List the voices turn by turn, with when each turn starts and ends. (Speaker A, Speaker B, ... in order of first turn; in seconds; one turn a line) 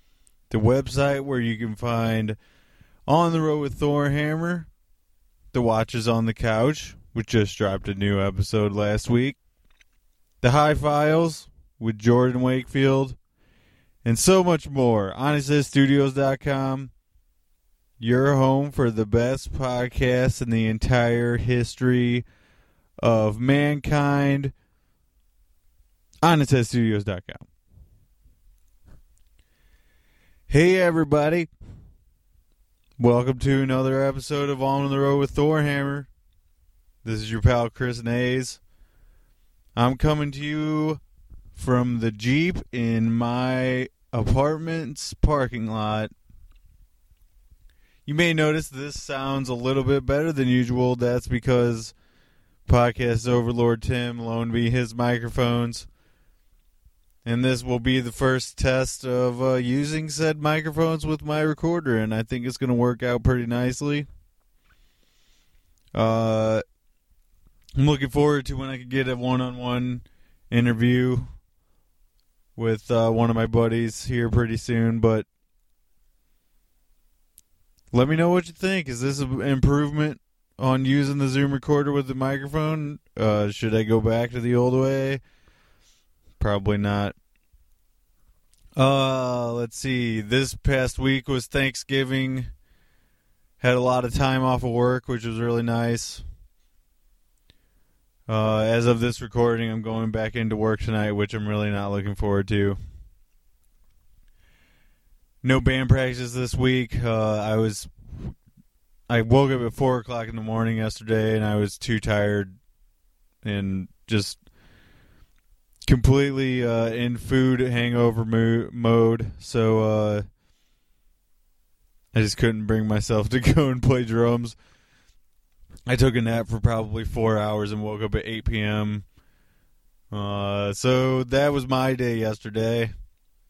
Speaker A: 0.5-2.4
Speaker A: 3.1-4.7
Speaker A: 5.5-9.4
Speaker A: 10.4-13.2
Speaker A: 14.0-16.9
Speaker A: 18.0-22.2
Speaker A: 23.0-24.5
Speaker A: 26.2-27.4
Speaker A: 30.5-31.5
Speaker A: 33.0-36.1
Speaker A: 37.0-38.6
Speaker A: 39.7-41.0
Speaker A: 41.5-46.1
Speaker A: 48.0-51.9
Speaker A: 52.6-55.9
Speaker A: 57.2-64.1
Speaker A: 65.9-66.6
Speaker A: 67.8-71.3
Speaker A: 72.5-75.2
Speaker A: 77.9-85.2
Speaker A: 86.4-87.1
Speaker A: 88.8-92.5
Speaker A: 93.6-96.2
Speaker A: 98.3-102.8
Speaker A: 105.4-108.3
Speaker A: 109.1-112.5
Speaker A: 113.4-114.4
Speaker A: 115.8-120.2
Speaker A: 122.1-124.5
Speaker A: 125.9-129.0
Speaker A: 130.1-132.9